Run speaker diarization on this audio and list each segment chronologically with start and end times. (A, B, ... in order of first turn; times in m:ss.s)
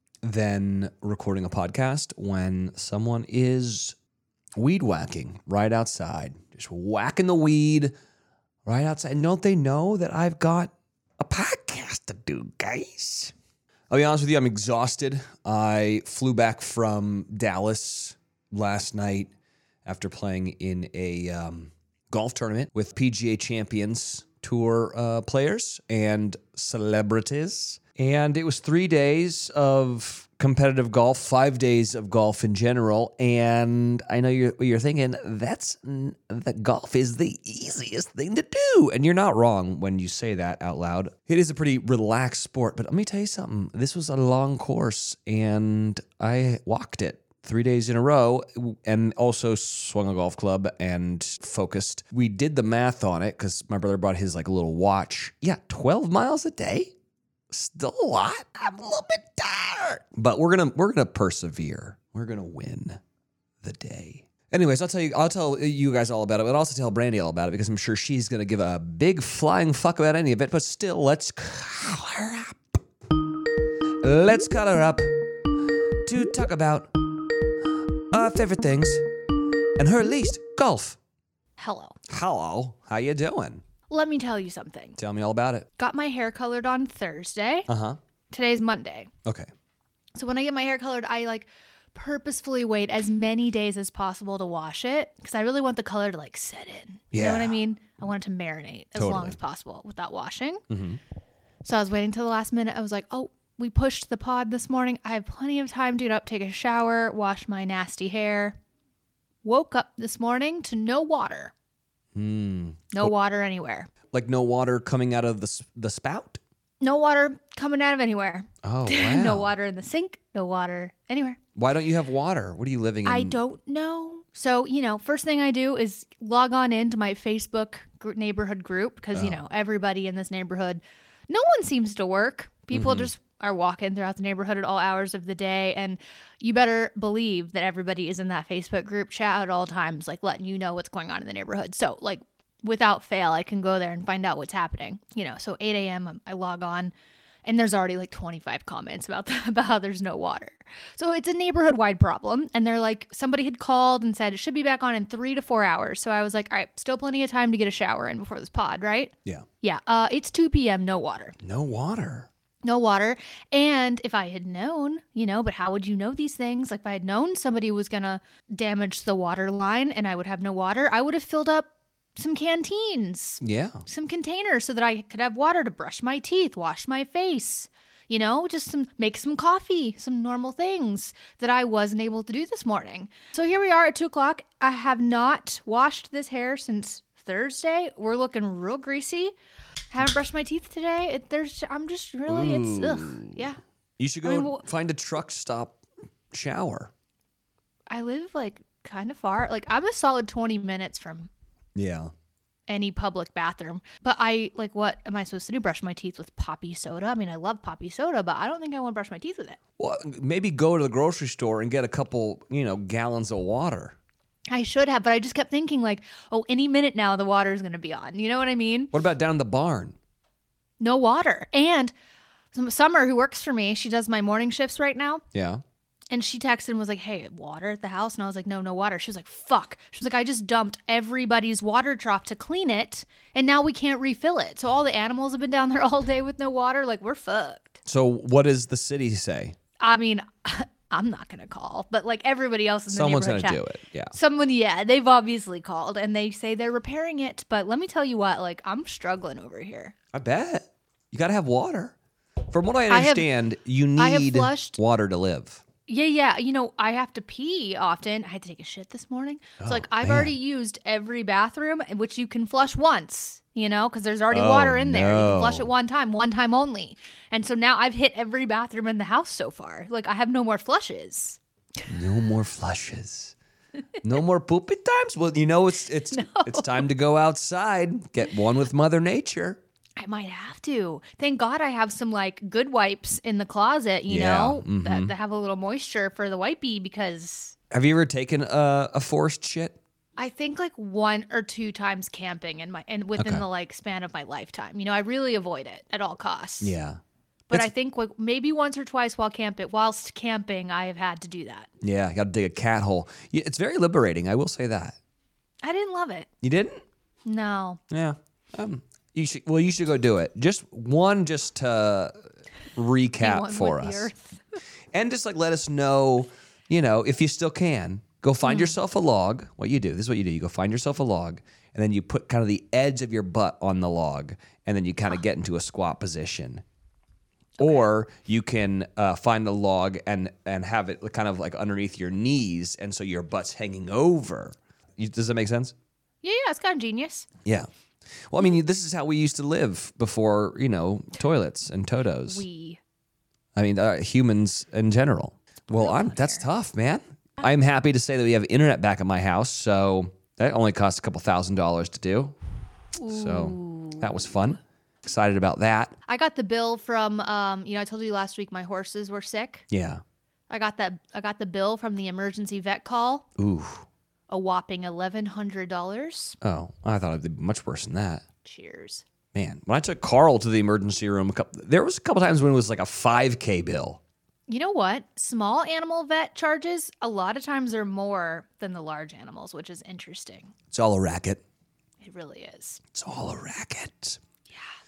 0:00.2-0:04.0 A
0:04.6-0:07.9 A
0:08.6-0:13.3 A
0:13.9-0:19.3 A
0:19.8-0:56.9 A
0:57.5-1:03.0 A
1:03.6-1:12.8 A
1:14.0-1:15.1 A
1:16.0-1:16.9 A
1:18.1-1:19.1 A
1:19.8-1:21.0 A
1:21.6-1:22.0 B
1:22.1-1:23.6 A
1:23.9-1:25.0 B
1:25.0-1:25.7 A
1:25.8-1:27.7 B
1:27.7-1:28.0 A
1:28.3-1:29.1 B
1:30.2-1:40.6 B
1:37.1-1:37.6 A
1:39.0-1:39.4 A
1:40.7-1:41.0 A
1:41.6-1:48.6 B
1:49.4-1:51.5 B
1:52.2-1:53.1 A
1:52.9-1:53.9 B
1:54.1-1:56.4 A
1:56.8-2:01.4 B
1:58.6-1:59.5 A
2:01.6-2:03.4 A
2:03.0-2:26.9 B
2:09.2-2:09.4 A
2:12.7-2:13.1 A
2:27.4-2:41.4 B
2:41.4-2:42.3 A
2:42.6-3:09.4 B
2:53.4-2:53.8 A
3:09.9-3:13.6 B
3:12.3-3:13.4 A
3:14.0-3:15.8 A
3:14.2-3:14.6 B
3:16.3-3:16.9 A
3:17.9-3:21.3 B
3:21.8-3:22.1 A
3:22.7-3:29.6 B
3:29.8-3:34.0 A
3:34.5-3:38.9 B
3:38.9-3:40.0 A
3:40.8-3:41.9 B
3:42.5-3:45.2 B
3:45.3-3:45.6 A
3:46.1-3:57.8 B
3:57.8-3:59.6 A
3:59.8-4:03.6 B
4:02.9-4:04.1 A
4:04.1-4:09.9 B
4:10.1-4:12.0 A
4:12.5-4:15.6 A
4:12.9-4:13.3 B
4:14.0-4:14.8 B
4:15.9-4:31.9 B
4:19.6-4:20.3 A
4:24.3-4:25.7 A
4:31.9-4:33.3 A
4:34.0-4:39.6 A
4:36.1-4:36.8 B
4:40.0-4:47.6 B
4:44.1-4:45.1 A
4:47.7-4:49.8 A
4:50.2-4:56.7 B
4:53.2-4:53.4 A
4:56.6-4:57.0 A
4:57.5-5:01.7 B
5:01.8-5:05.0 A
5:05.6-5:06.3 B
5:06.4-5:06.8 A
5:07.2-5:07.8 B
5:07.9-5:12.2 A
5:12.7-5:14.1 A
5:13.2-5:14.6 B
5:14.9-5:26.6 A
5:18.4-5:18.8 B
5:27.6-5:27.8 B
5:27.6-5:35.7 A
5:36.2-5:37.3 B
5:38.3-5:42.4 A
5:42.3-5:42.8 B
5:43.6-5:52.4 A
5:45.7-5:46.5 B
5:53.0-5:54.1 B
5:53.1-5:55.9 A
5:56.1-5:59.7 B
5:59.7-6:00.0 A
6:00.5-6:03.3 B
6:03.4-6:03.9 A
6:04.3-6:06.4 B
6:06.4-6:08.2 A
6:08.4-6:09.0 B
6:09.3-6:14.0 A
6:14.5-6:20.5 B
6:20.7-6:21.4 A
6:22.0-6:22.8 B
6:22.9-6:24.2 A
6:24.5-6:24.7 B